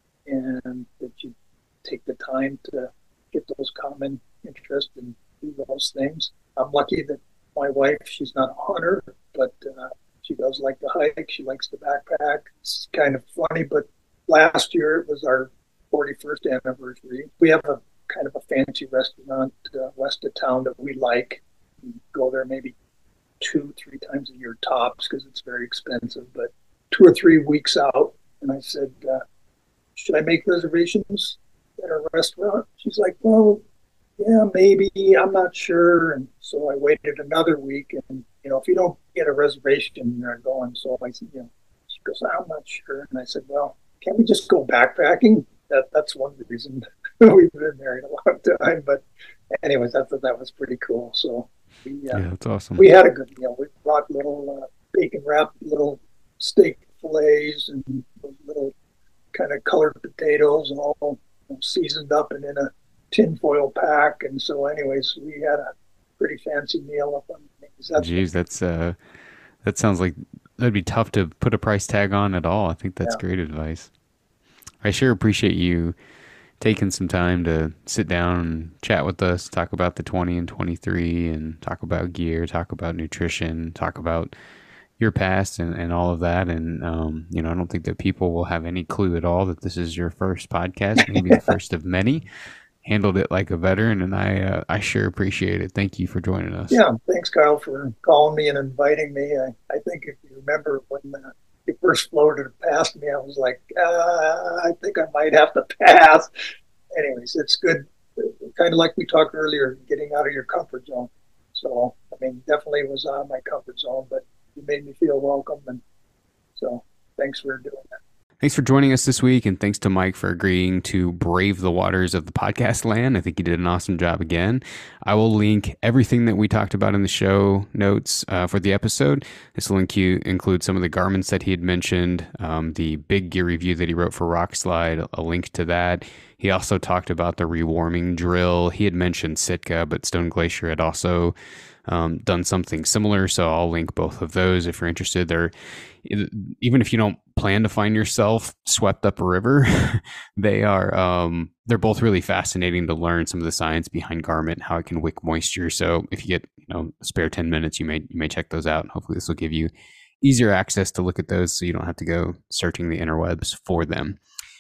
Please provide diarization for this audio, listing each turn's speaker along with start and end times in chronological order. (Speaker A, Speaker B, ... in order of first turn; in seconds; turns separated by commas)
Speaker A: 0.3-22.8, Speaker A: 23.4-29.2, Speaker A: 30.0-33.6, Speaker A: 34.2-49.0, Speaker A: 49.6-52.2, Speaker B: 52.1-52.9, Speaker A: 52.8-58.7, Speaker A: 59.3-65.7, Speaker A: 66.2-68.2, Speaker B: 68.0-69.0, Speaker B: 69.6-73.9, Speaker B: 74.8-76.0, Speaker B: 76.6-84.3, Speaker B: 85.0-92.2, Speaker A: 91.1-91.4, Speaker B: 92.8-96.8, Speaker A: 96.7-106.3, Speaker A: 106.9-115.8, Speaker A: 116.6-117.9, Speaker B: 118.4-141.3, Speaker B: 141.9-145.5, Speaker B: 146.0-159.7, Speaker B: 160.2-164.2